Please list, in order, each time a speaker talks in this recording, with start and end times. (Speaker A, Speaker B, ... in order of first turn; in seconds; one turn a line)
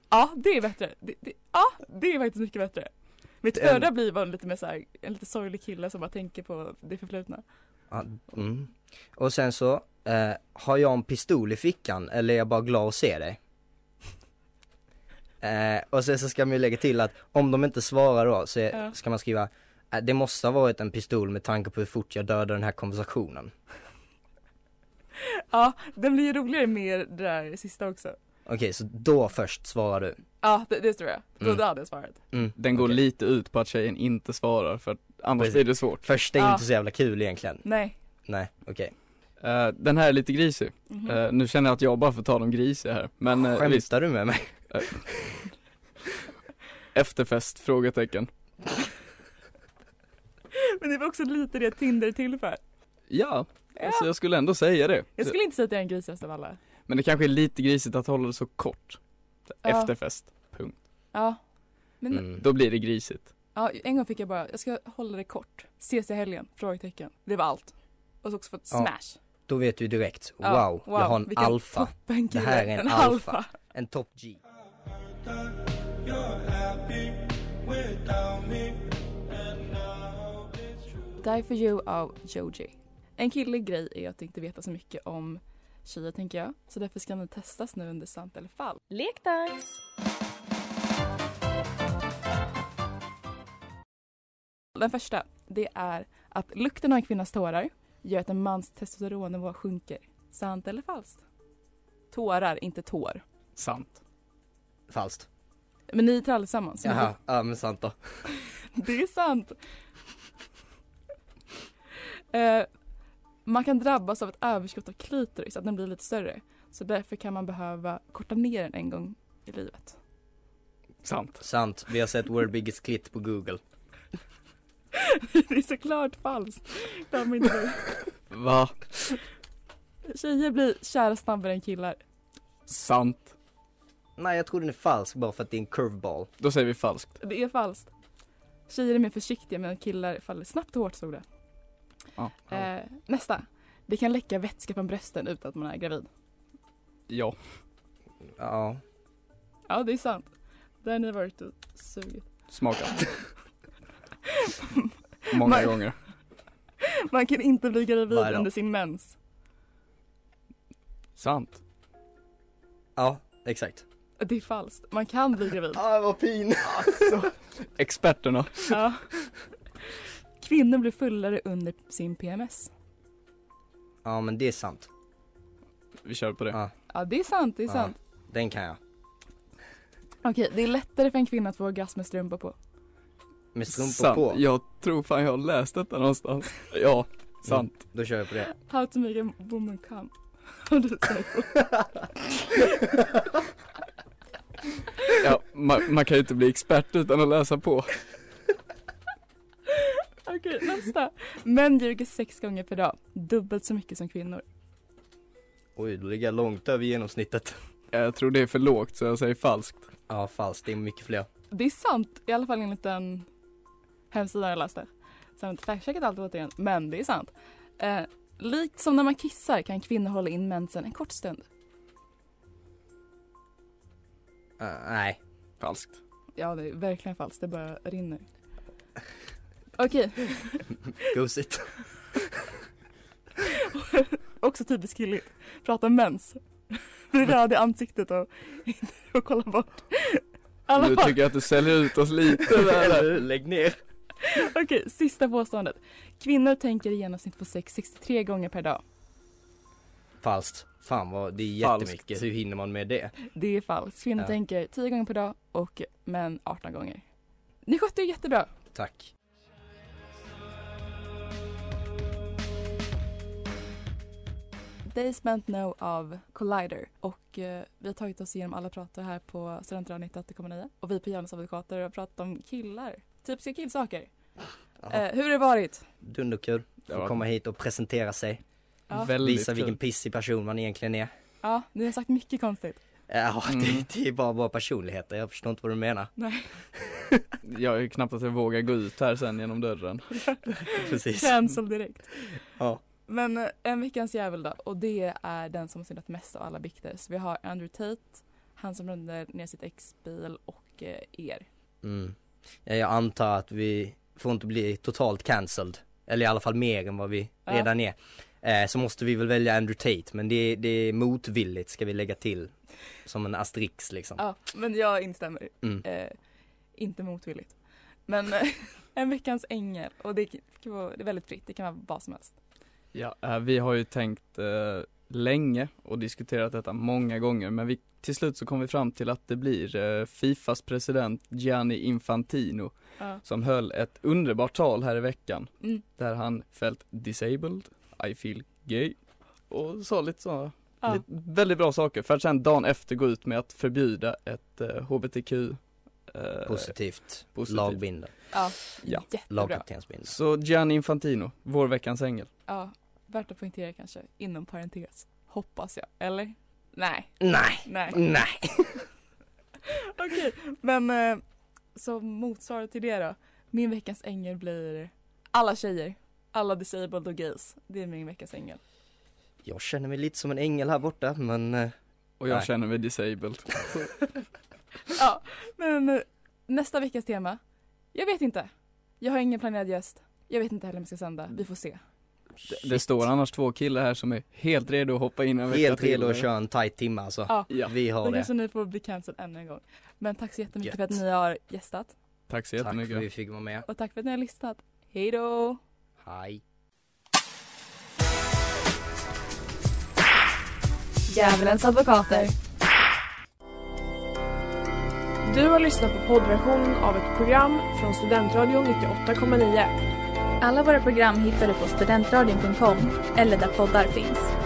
Speaker A: 0.1-2.9
Speaker A: 3.4-7.4
Speaker B: 3.6-3.8
Speaker B: 7.9-13.4
Speaker B: 15.4-23.5
Speaker A: 25.2-28.1
Speaker B: 28.4-30.2
Speaker A: 30.4-32.2
Speaker B: 32.3-33.0
Speaker C: 32.6-36.0
Speaker B: 35.4-37.6
Speaker A: 36.4-36.6
Speaker A: 37.6-38.0
Speaker B: 38.2-38.9
Speaker C: 39.4-43.9
Speaker A: 40.9-41.2
Speaker B: 43.4-45.4
Speaker C: 44.7-45.0
Speaker C: 46.9-48.3
Speaker A: 50.5-52.6
Speaker C: 53.1-55.3
Speaker A: 53.8-54.1
Speaker A: 55.2-56.6
Speaker C: 56.9-60.8
Speaker A: 59.6-59.9
Speaker A: 61.1-61.4
Speaker A: 62.0-62.3
Speaker B: 62.1-62.4
Speaker C: 62.4-63.3
Speaker A: 63.5-69.2
Speaker B: 69.5-74.4
Speaker A: 70.4-73.5
Speaker A: 81.2-88.8
Speaker D: 88.9-89.7
Speaker A: 94.7-101.2
Speaker A: 102.1-103.2
Speaker C: 103.5-104.0
Speaker B: 104.9-105.3
Speaker A: 105.9-107.1
Speaker B: 106.8-108.0
Speaker A: 108.7-109.5
Speaker A: 112.3-112.7
Speaker A: 113.5-120.0
Speaker C: 121.0-121.4
Speaker B: 121.4-123.6
Speaker A: 124.9-127.9
Speaker C: 128.3-128.8
Speaker A: 130.0-132.0
Speaker C: 132.7-133.3
Speaker B: 134.2-136.3
Speaker C: 136.4-137.1
Speaker A: 137.2-137.9
Speaker A: 138.7-141.2
Speaker C: 142.2-142.6
Speaker A: 142.5-146.1
Speaker C: 147.1-147.3
Speaker B: 148.4-148.8
Speaker A: 149.7-150.3
Speaker A: 150.8-152.3
Speaker C: 152.5-153.1
Speaker A: 154.3-155.8
Speaker C: 155.3-155.9
Speaker A: 156.8-159.2
Speaker B: 158.1-158.5
Speaker C: 161.2-161.6
Speaker B: 163.0-163.8
Speaker A: 164.2-165.8
Speaker B: 165.7-167.2
Speaker C: 166.8-167.2
Speaker C: 167.8-168.8
Speaker A: 168.7-169.0
Speaker A: 170.4-172.7
Speaker B: 174.0-174.9
Speaker C: 176.0-176.6
Speaker A: 176.9-177.9
Speaker B: 177.7-178.8
Speaker A: 180.2-182.5
Speaker B: 183.5-184.4
Speaker C: 183.7-187.7
Speaker B: 187.4-188.5
Speaker A: 188.4-191.8
Speaker A: 192.5-192.8
Speaker C: 195.1-197.9
Speaker A: 199.7-204.4
Speaker B: 205.8-207.6
Speaker C: 207.9-209.9
Speaker B: 210.1-211.3
Speaker A: 211.5-213.3
Speaker A: 214.1-221.4
Speaker B: 224.6-225.2
Speaker C: 225.6-226.0
Speaker A: 226.4-228.2
Speaker A: 229.8-230.7
Speaker B: 231.0-231.7
Speaker A: 233.4-241.2
Speaker C: 240.8-243.1
Speaker B: 242.5-243.8
Speaker A: 244.2-248.8
Speaker B: 250.2-253.1
Speaker C: 251.6-252.2
Speaker A: 253.3-257.0
Speaker A: 257.6-258.5
Speaker B: 258.7-259.1
Speaker A: 264.8-274.1
Speaker A: 274.9-275.9
Speaker B: 276.0-278.4
Speaker C: 276.9-277.2
Speaker C: 278.9-279.8
Speaker B: 279.1-281.1
Speaker A: 281.4-282.8
Speaker B: 283.1-286.1
Speaker C: 283.5-283.9
Speaker A: 286.2-286.5
Speaker B: 286.9-287.2
Speaker C: 287.4-290.2
Speaker A: 290.7-292.3
Speaker B: 290.7-291.3
Speaker B: 292.6-292.8
Speaker A: 293.1-301.4
Speaker B: 301.8-312.5
Speaker B: 313.0-314.2
Speaker A: 314.2-316.1
Speaker A: 316.8-322.4
Speaker C: 322.9-338.9
Speaker C: 339.5-346.7
Speaker B: 346.4-348.1
Speaker C: 347.3-347.8
Speaker A: 348.3-349.6
Speaker B: 349.3-350.1
Speaker C: 350.1-352.3
Speaker A: 352.5-358.0
Speaker B: 357.2-358.8
Speaker A: 359.6-361.2
Speaker A: 361.7-368.6
Speaker B: 369.4-371.7
Speaker C: 372.2-373.9
Speaker A: 374.9-377.4
Speaker A: 377.9-381.8
Speaker C: 382.5-386.3
Speaker B: 382.5-383.0
Speaker B: 385.5-388.3
Speaker A: 387.3-391.9
Speaker B: 390.6-390.9
Speaker C: 392.3-393.0
Speaker B: 392.6-393.6
Speaker A: 393.6-395.6
Speaker B: 396.0-396.4
Speaker A: 401.1-402.3
Speaker D: 401.1-402.3
Speaker E: 405.2-409.7
Speaker D: 410.4-414.3